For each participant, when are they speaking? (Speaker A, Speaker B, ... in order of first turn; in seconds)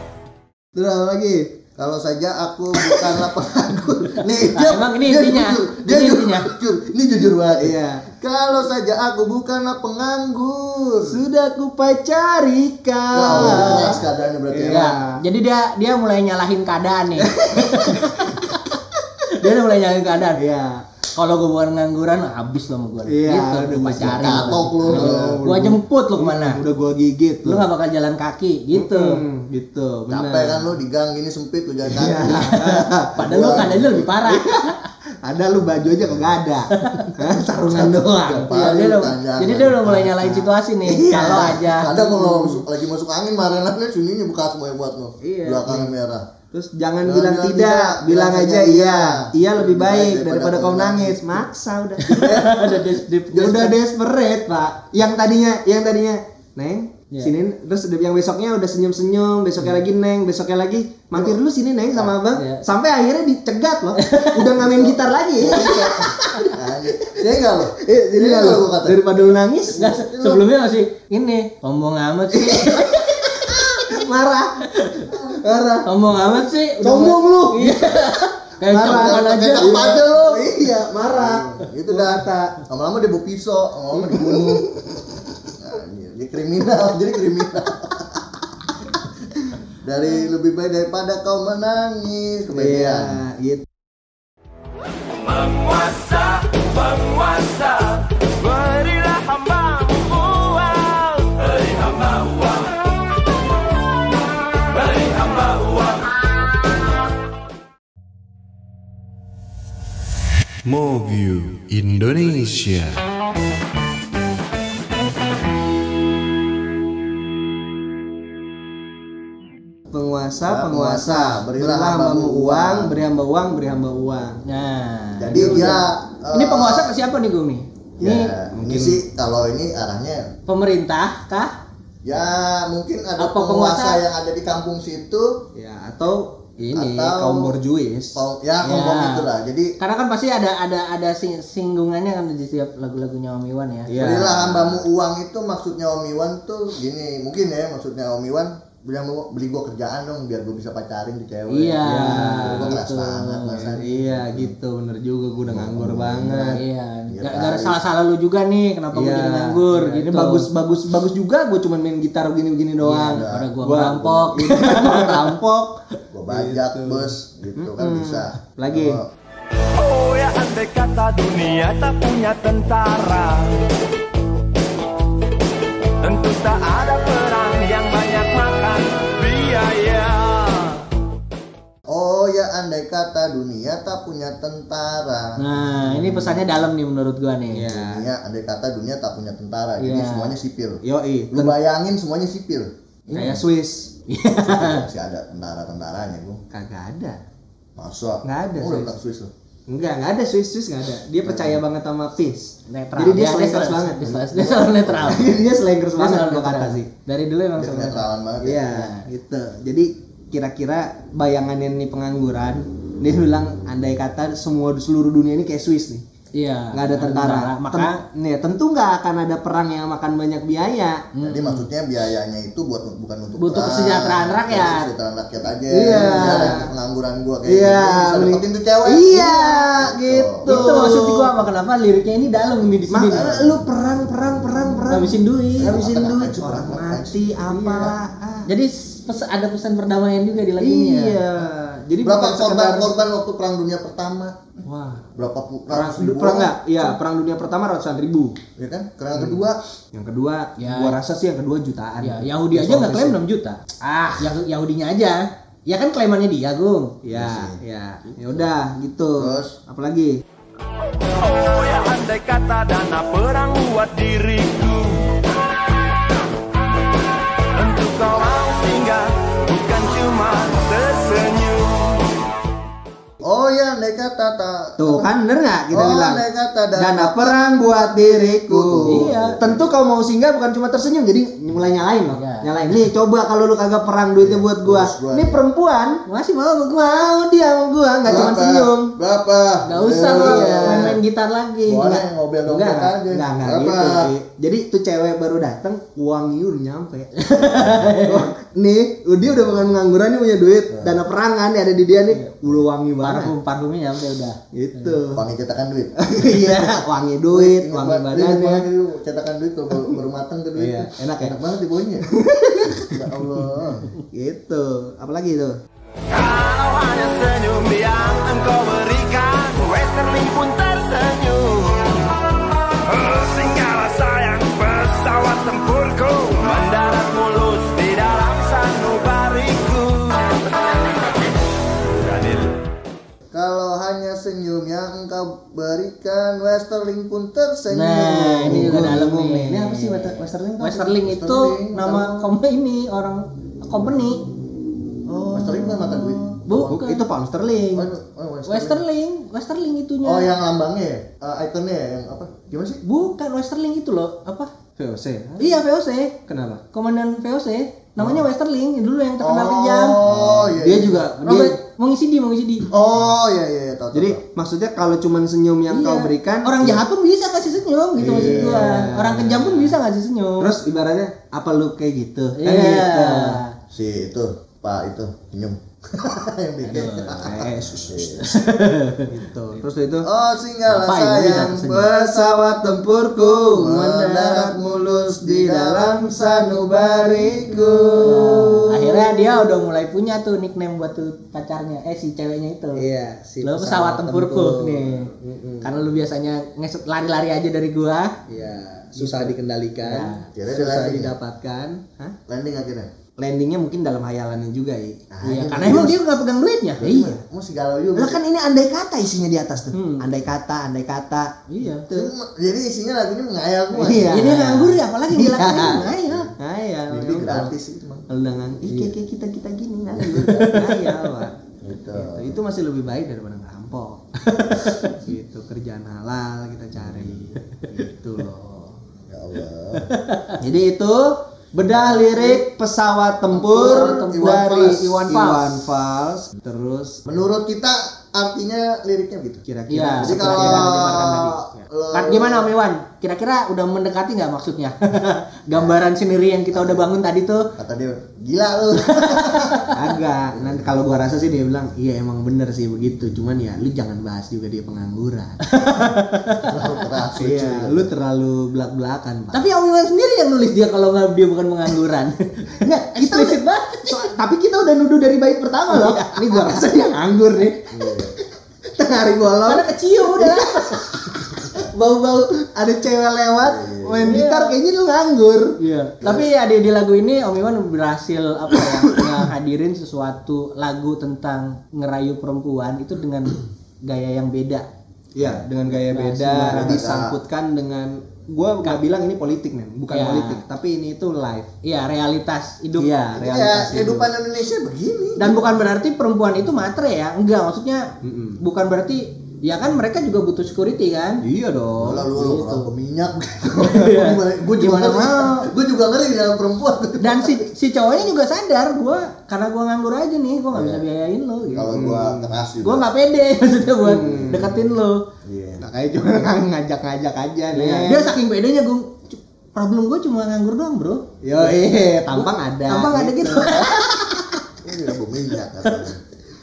Speaker A: 0.7-1.6, 7.6-8.1, 11.1-15.2, 17.2-18.2, 20.4-20.8, 23.1-27.7, 28.7-30.7, 31.9-33.1, 34.3-34.7, 35.2-38.5, 40.9-42.6, 45.2-45.9, 46.5-52.5, 53.3-69.8, 72.3-75.9, 76.8-82.6, 84.0-84.8, 92.5-93.6, 119.9-124.4, 125.3-125.7, 128.5-129.0, 135.5-138.2, 143.9-144.8, 151.8-152.8, 153.6-156.6, 158.9-165.8, 166.3-169.0, 187.5-188.1, 190.8-191.5, 193.2-193.9, 196.5-197.2, 198.2-198.9, 199.7-204.1, 205.0-206.9, 208.4-216.0, 216.7-221.1, 225.7-226.7, 227.4-231.3, 232.9-238.5, 240.6-242.9, 244.7-245.0, 245.7-248.3, 249.1-253.2, 257.0-260.2, 274.8-286.0, 286.7-288.9, 290.1-291.0, 292.4-303.3, 304.5-305.2, 306.0-308.7, 310.6-311.4, 312.1-313.1, 314.1-315.6, 338.4-341.0, 345.1-346.0, 346.7-347.9, 354.8-355.6, 356.2-356.6, 358.0-358.2, 360.0-361.6, 363.9-366.8, 368.0-369.8, 370.4-373.4, 377.2-378.3, 379.1-380.1, 381.8-389.6, 392.8-395.7, 398.3-402.1, 403.2-405.0, 407.9-412.1, 413.7-417.5, 418.1-421.4, 421.9-424.2, 424.8-428.7, 430.4-437.0, 439.4-440.7, 449.7-455.4, 457.2-459.5, 462.6-468.1, 468.7-475.5, 478.6-479.1, 485.1-491.5, 492.8-493.2, 498.0-498.4, 501.2-502.1, 511.7-512.4, 513.8-514.6, 515.6-518.2, 521.2-523.6
Speaker B: 1.8-11.2, 13.1-14.9, 24.0-25.4, 30.1-34.1, 37.6-46.3, 47.0-51.4, 52.1-53.6, 64.5-69.0, 69.7-70.5, 75.1-75.3, 78.7-84.8, 85.6-88.2, 89.8-93.2, 120.5-123.0, 125.2-127.0, 128.0-130.2, 132.0-135.4, 136.7-137.5, 138.1-139.8, 143.9-154.5, 155.4-157.8, 162.9-163.5, 166.1-169.1, 181.9-186.6, 187.7-193.4, 194.3-196.4, 197.8-199.3, 201.2-201.6, 204.0-205.2, 207.6-208.7, 221.2-230.9, 233.1-233.6, 235.6-237.9, 242.0-244.6, 245.2-246.6, 248.6-249.6, 257.1-257.6, 259.2-259.6, 273.2-275.1, 275.7-279.6, 284.2-285.4, 288.0-291.0, 291.6-294.1, 300.7-301.0, 305.1-305.9, 307.3-312.1, 312.9-313.9, 333.3-338.9, 341.0-342.3, 345.3-346.8, 347.7-348.8, 350.0-352.8, 359.2-361.1, 362.7-364.2, 368.0-368.7, 373.7-378.4, 380.0-382.8, 383.3-388.6, 400.3-401.1, 402.3-402.9, 405.1-406.0, 406.8-408.2, 411.9-414.2, 416.0-416.3, 416.9-418.1, 419.9-420.6, 421.6-422.4, 429.1-429.9, 433.3-434.9, 437.0-439.4, 440.0-442.5, 445.5-445.8, 446.5-446.9, 447.6-449.7, 450.3-450.7, 456.4-457.9, 467.7-468.1, 473.4-474.1, 476.0-476.3, 486.5-487.1, 493.1-495.4, 501.8-507.5, 510.5-510.8, 511.4-512.9, 515.2-515.6, 523.4-523.8, 524.6-526.0
Speaker C: 4.4-6.5, 13.2-14.0, 14.7-18.6, 19.3-20.4, 21.1-26.6, 27.4-29.2, 33.2-34.7, 36.8-37.2, 38.5-41.9, 52.1-53.7, 62.3-62.6, 64.0-64.3, 69.7-73.7, 74.8-75.1, 75.8-79.8, 124.4-128.3, 130.5-131.5, 133.2-134.0, 138.6-143.9, 151.5-153.6, 156.5-160.5, 163.1-165.3, 185.4-187.7, 189.8-190.3, 193.1-193.4, 194.1-194.8, 202.7-205.3, 205.9-208.1, 208.7-209.1, 216.3-218.0, 221.1-221.7, 223.4-224.9, 230.4-233.3, 234.9-235.8, 238.5-241.2, 250.6-251.0, 252.0-256.9, 278.8-279.4, 282.1-282.5, 286.1-286.9, 289.6-292.0, 297.2-298.3, 303.0-305.0, 337.7-344.2, 346.4-347.0, 348.4-350.3, 352.8-354.5, 355.4-356.1, 356.7-360.0, 361.2-362.7, 365.7-370.5, 372.4-373.6, 376.6-377.3, 378.2-379.1, 380.7-381.9, 388.0-392.8, 393.4-398.1, 398.9-400.2, 405.2-407.2, 409.7-410.1, 411.5-411.8, 414.1-416.3, 420.2-421.0, 424.3-424.9, 429.9-430.4, 432.0-432.4, 433.4-435.6, 439.7-441.4, 441.9-447.5, 448.9-449.7, 455.4-456.5, 459.3-464.0, 465.7-466.6, 469.4-470.8, 474.0-474.6, 475.6-484.6, 485.8-486.8, 489.9-490.4, 491.6-494.1, 495.2-497.9, 498.4-501.2, 502.1-502.7, 503.6-505.5, 507.0-511.8, 512.6-515.0, 517.5-521.0, 522.1-524.4
Speaker D: 95.2-102.8, 104.7-106.1, 110.7-113.0, 169.7-173.7, 176.0-180.9, 261.1-265.2, 267.5-272.2, 316.1-322.1, 322.8-330.6, 331.9-332.6